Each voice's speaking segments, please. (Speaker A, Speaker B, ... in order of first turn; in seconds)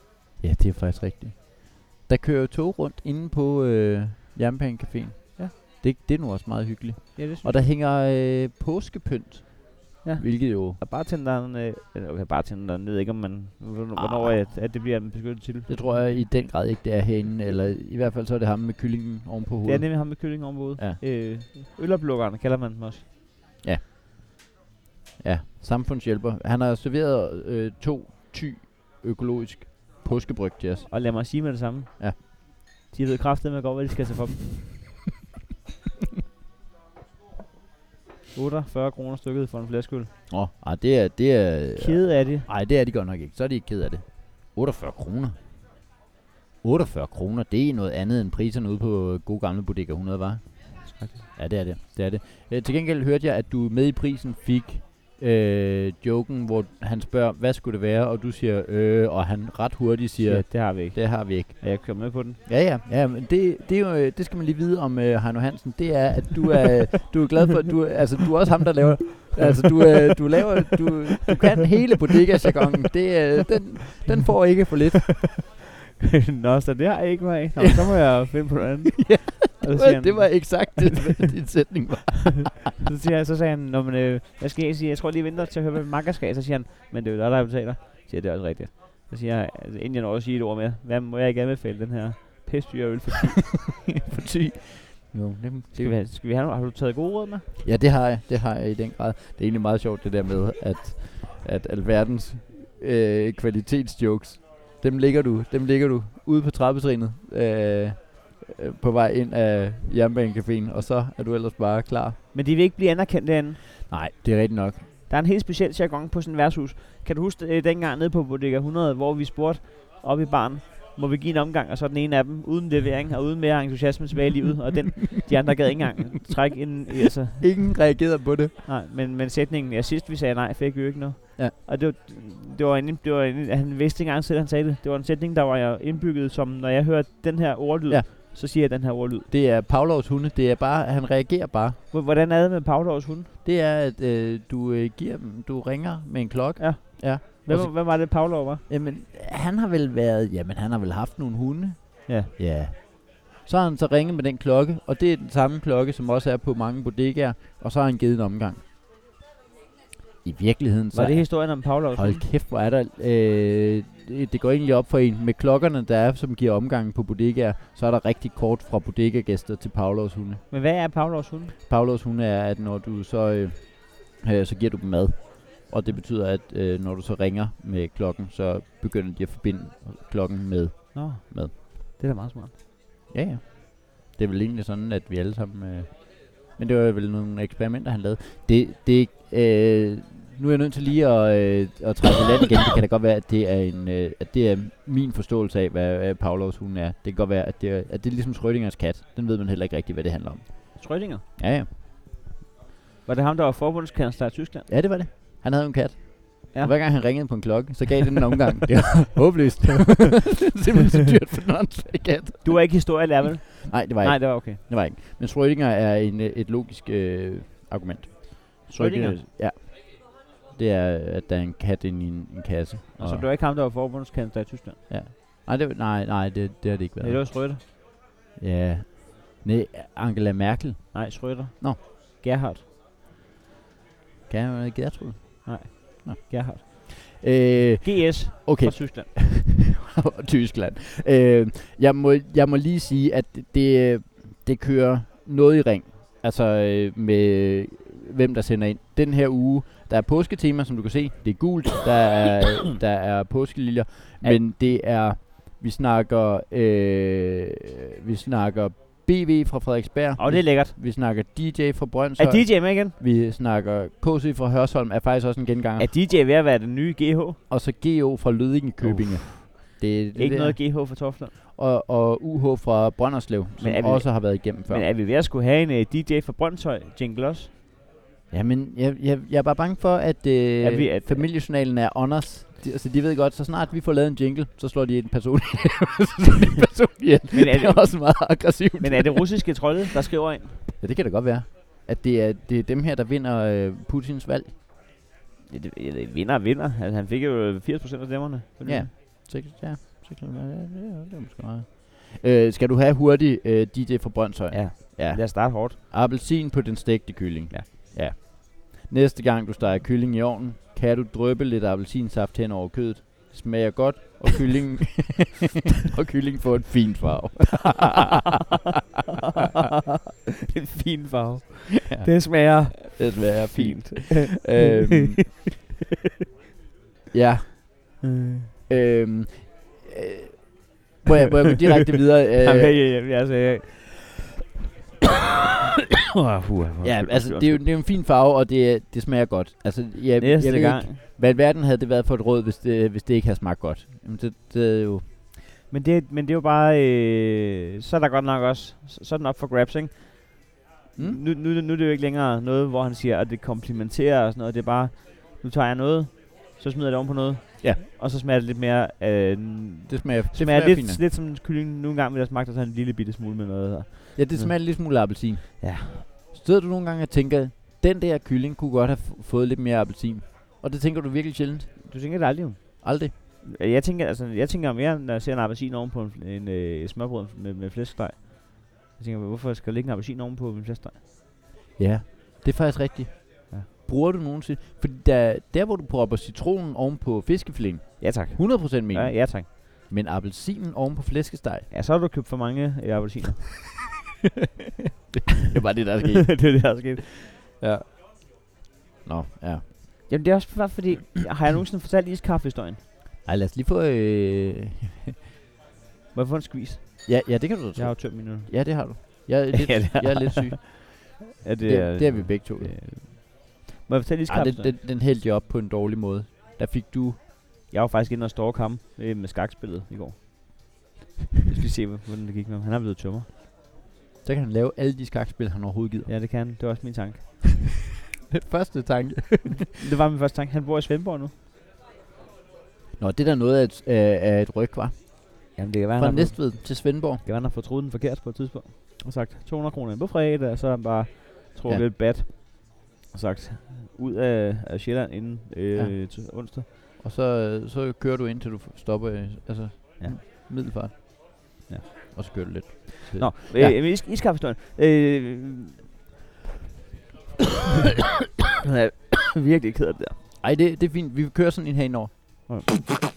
Speaker A: 0.4-10.8, 13.9-14.5, 15.7-21.0, 25.2-30.9, 40.3-45.4, 46.6-75.3, 78.9-82.6, 93.9-96.0, 97.6-112.2, 113.9-114.8, 127.4-128.5, 139.3-141.8, 143.4-158.6, 160.2-170.4, 171.7-181.5, 183.1-201.7, 204.7-220.0, 220.5-223.3, 224.9-227.6, 228.4-231.8, 234.3-265.9, 267.5-274.9, 278.3-289.7, 290.8-294.6, 298.6-318.1, 321.8-325.4, 327.1-328.0, 328.7-332.8, 336.8-345.1, 350.9-351.2, 359.9-361.0, 364.1-371.8, 372.8-373.1, 381.8-391.7, 395.3-396.8, 397.6-397.9, 399.0-399.6, 403.2-405.1, 407.1-410.9, 411.6-412.8, 414.3-417.2, 424.2-426.1, 428.3-429.6, 433.0-437.2, 445.8-446.1, 447.0-450.9, 452.1-453.8, 460.4-462.1
Speaker B: 7.2-7.6, 10.0-16.3, 19.6-23.0, 30.9-34.4, 38.3-40.1, 41.8-42.5, 50.9-51.3, 60.2-62.4, 69.3-69.8, 76.0-81.0, 82.8-93.5, 95.7-97.5, 112.3-113.7, 115.1-127.9, 128.6-139.3, 141.9-143.3, 146.6-148.6, 152.1-152.3, 160.9-162.2, 170.5-171.5, 180.9-182.5, 200.8-201.2, 203.1-204.7, 206.5-207.3, 212.4-214.6, 218.7-219.2, 222.9-224.8, 227.0-227.6, 230.9-232.6, 235.4-237.2, 237.8-239.1, 260.2-260.8, 262.2-262.9, 265.8-267.4, 268.8-271.3, 273.6-277.5, 280.6-281.2, 287.3-290.6, 295.5-298.9, 304.5-305.8, 320.5-325.2, 328.0-328.5, 332.4-334.2, 336.2-337.6, 340.2-341.0, 345.7-366.0, 371.8-381.0, 388.0-389.5, 391.7-393.4, 396.2-397.0, 400.1-402.8, 406.1-414.7, 417.7-420.7, 421.5-423.3, 426.1-427.2, 429.7-431.3, 435.5-446.6, 450.0-451.1, 451.7-455.8, 458.6-460.2